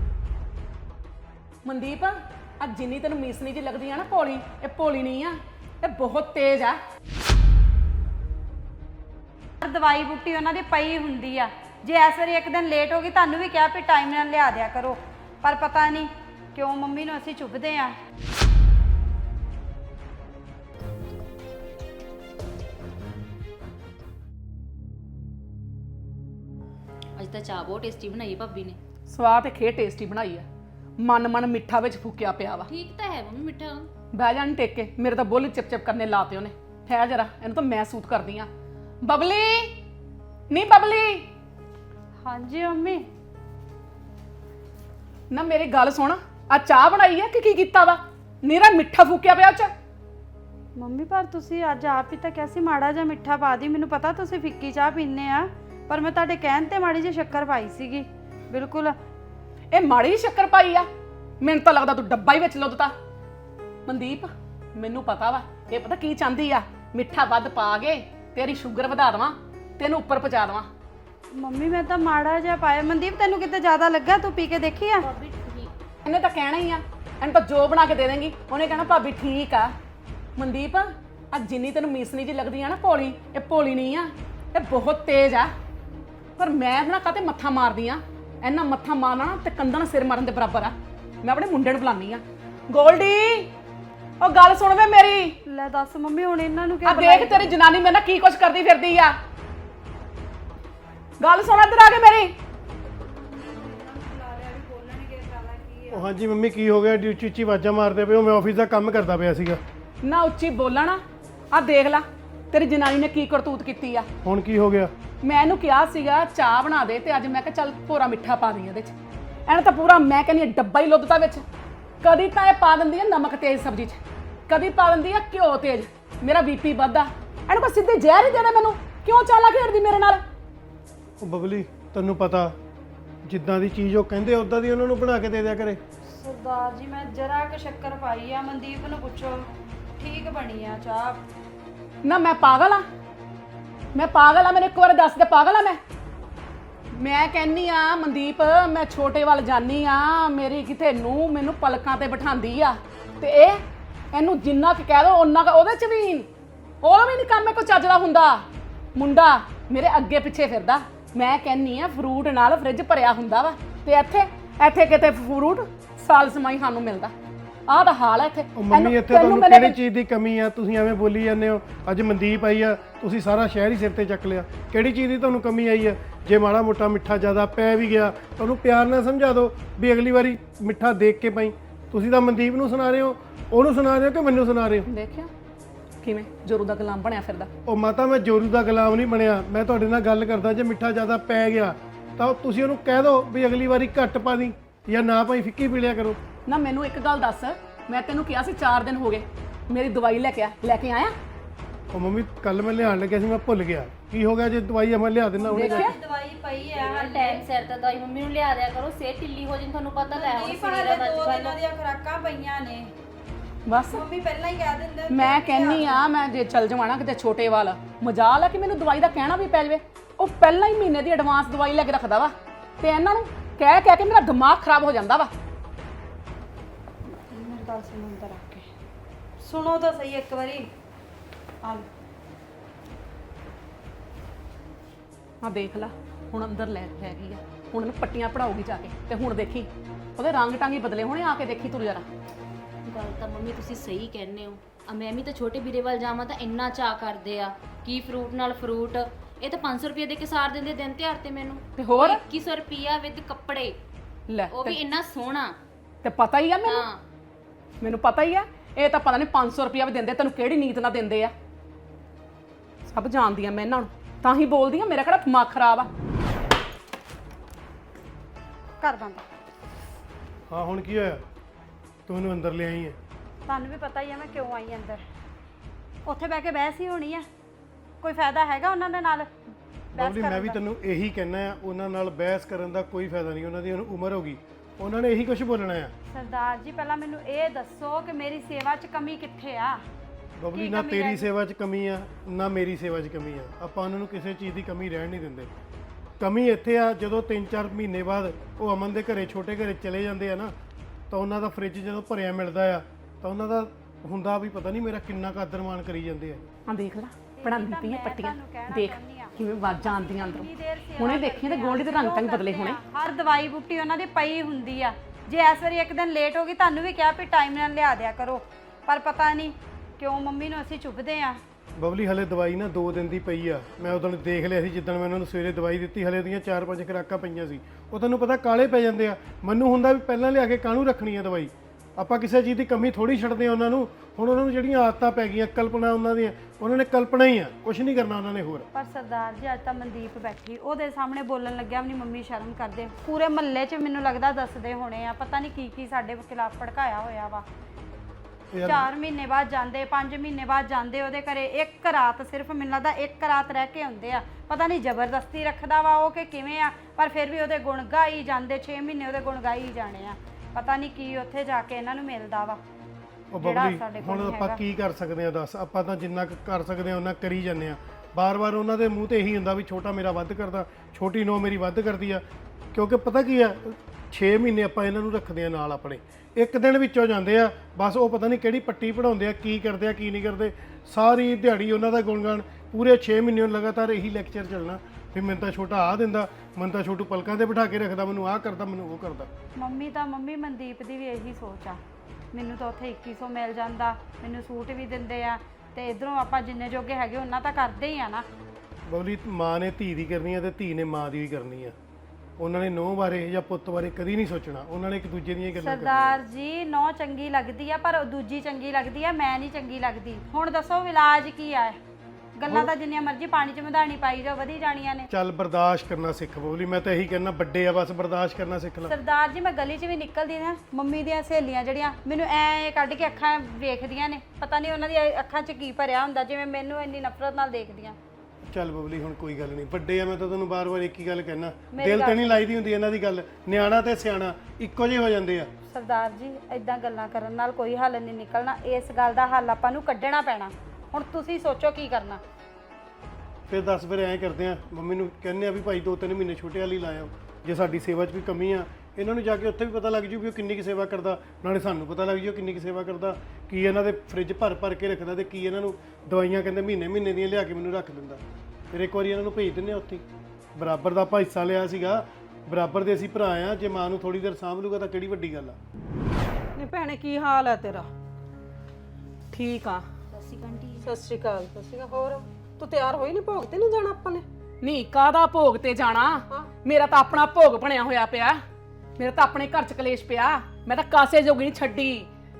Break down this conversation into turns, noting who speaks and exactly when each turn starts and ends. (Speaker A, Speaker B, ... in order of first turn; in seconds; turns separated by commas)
Speaker A: 1.6-6.8, Speaker B: 9.6-18.0, Speaker C: 27.2-28.8, Speaker A: 29.1-30.4, Speaker A: 31.0-32.7, Speaker C: 32.7-33.9, Speaker A: 34.1-38.5, Speaker A: 39.0-39.8, Speaker A: 40.5-41.3, Speaker B: 42.2-43.0, Speaker A: 45.3-49.7, Speaker B: 50.8-59.0, Speaker A: 59.7-60.9, Speaker A: 61.4-62.9, Speaker A: 63.9-70.7, Speaker B: 71.3-75.1, Speaker C: 75.0-75.7, Speaker A: 76.0-79.7, Speaker A: 80.4-85.5, Speaker A: 86.4-93.5, Speaker A: 94.2-95.4, Speaker B: 95.5-97.5, Speaker A: 96.9-99.2, Speaker A: 101.2-102.3, Speaker B: 103.2-106.0, Speaker D: 105.9-109.6, Speaker A: 110.0-111.0, Speaker A: 111.5-114.1, Speaker D: 114.2-114.9, Speaker A: 115.2-119.0, Speaker A: 119.5-121.4, Speaker A: 122.0-130.2, Speaker D: 131.2-132.5, Speaker D: 133.2-135.8, Speaker B: 136.1-139.5, Speaker B: 140.0-141.2, Speaker A: 142.1-142.8, Speaker A: 143.9-145.8, Speaker A: 146.9-153.6, Speaker A: 154.1-156.3, Speaker A: 156.8-167.1, Speaker A: 167.7-169.8, Speaker D: 168.6-184.9, Speaker A: 184.9-185.3, Speaker A: 186.0-187.5, Speaker D: 187.7-196.2, Speaker A: 196.5-201.1, Speaker D: 201.9-205.9, Speaker B: 205.4-207.4, Speaker A: 205.5-205.9, Speaker C: 206.8-211.6, Speaker B: 210.1-212.9, Speaker A: 213.7-214.0, Speaker B: 213.9-216.1, Speaker A: 215.1-225.3, Speaker B: 227.1-228.7, Speaker B: 229.4-230.7, Speaker A: 235.4-242.1, Speaker C: 242.9-253.8, Speaker A: 251.8-252.2, Speaker A: 254.3-254.8, Speaker C: 254.5-255.6, Speaker A: 256.0-256.8, Speaker C: 256.6-257.0, Speaker A: 257.8-261.3, Speaker A: 262.9-265.9, Speaker B: 268.8-269.2, Speaker D: 270.5-271.2, Speaker D: 272.1-273.0, Speaker B: 273.5-275.0, Speaker B: 276.1-277.2, Speaker B: 278.0-279.3, Speaker D: 279.9-285.9, Speaker B: 280.0-280.6, Speaker B: 286.1-289.8, Speaker D: 290.4-295.5, Speaker B: 290.5-291.3, Speaker D: 296.2-300.5, Speaker D: 301.1-306.4, Speaker A: 306.7-312.8, Speaker B: 307.4-309.4, Speaker B: 309.9-321.4, Speaker D: 321.8-338.7, Speaker B: 338.7-347.4, Speaker D: 348.5-348.9, Speaker B: 348.6-362.6, Speaker D: 363.3-372.2, Speaker B: 363.4-364.6, Speaker D: 372.7-389.3, Speaker B: 389.6-391.8, Speaker B: 392.3-398.3, Speaker D: 398.9-401.8, Speaker D: 402.4-406.2, Speaker B: 405.6-411.8, Speaker B: 412.4-415.1, Speaker D: 415.1-418.9, Speaker B: 418.9-428.0, Speaker D: 428.4-435.5, Speaker B: 431.7-432.4, Speaker B: 435.7-442.2, Speaker D: 443.5-460.1, Speaker D: 460.6-465.6, Speaker E: 466.6-467.9, Speaker A: 469.3-469.9, Speaker C: 470.1-470.8, Speaker E: 470.8-474.3, Speaker A: 474.6-478.4, Speaker A: 479.0-482.1